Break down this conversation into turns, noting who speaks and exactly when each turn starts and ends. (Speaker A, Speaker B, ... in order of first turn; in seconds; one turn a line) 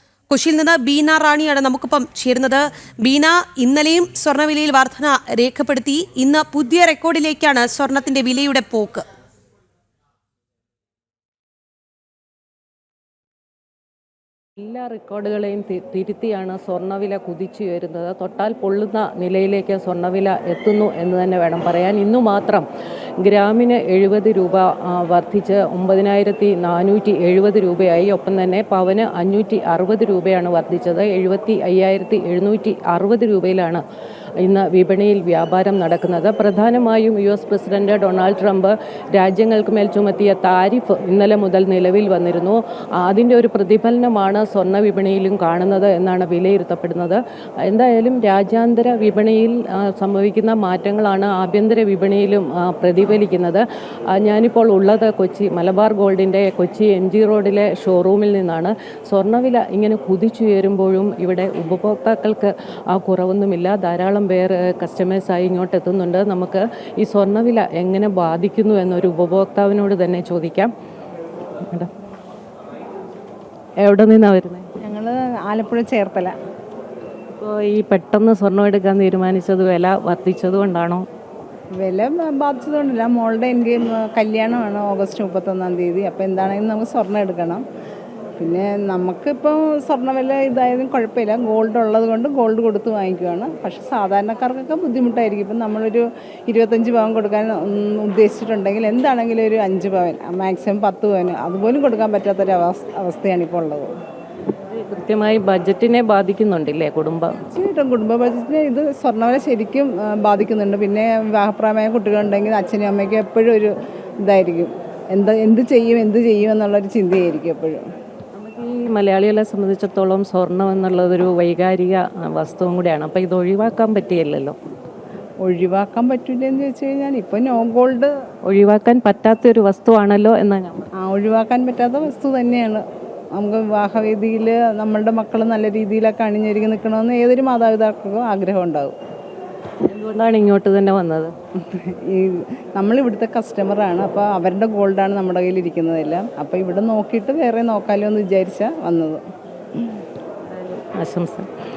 Speaker A: 0.3-9.0
Speaker B: 14.6-22.6
Speaker B: 23.2-33.8
Speaker B: 34.4-70.7
Speaker B: 73.8-74.7
Speaker C: 74.8-76.3
Speaker B: 77.3-81.0
Speaker C: 81.7-87.6
Speaker C: 88.4-103.9
Speaker B: 104.6-107.4
Speaker C: 107.5-117.8
Speaker B: 118.3-124.5
Speaker C: 125.4-128.1
Speaker B: 128.4-130.8
Speaker C: 131.0-132.8
Speaker C: 133.3-138.9
Speaker B: 139.8-141.3
Speaker C: 141.6-149.2
Speaker B: 150.5-151.5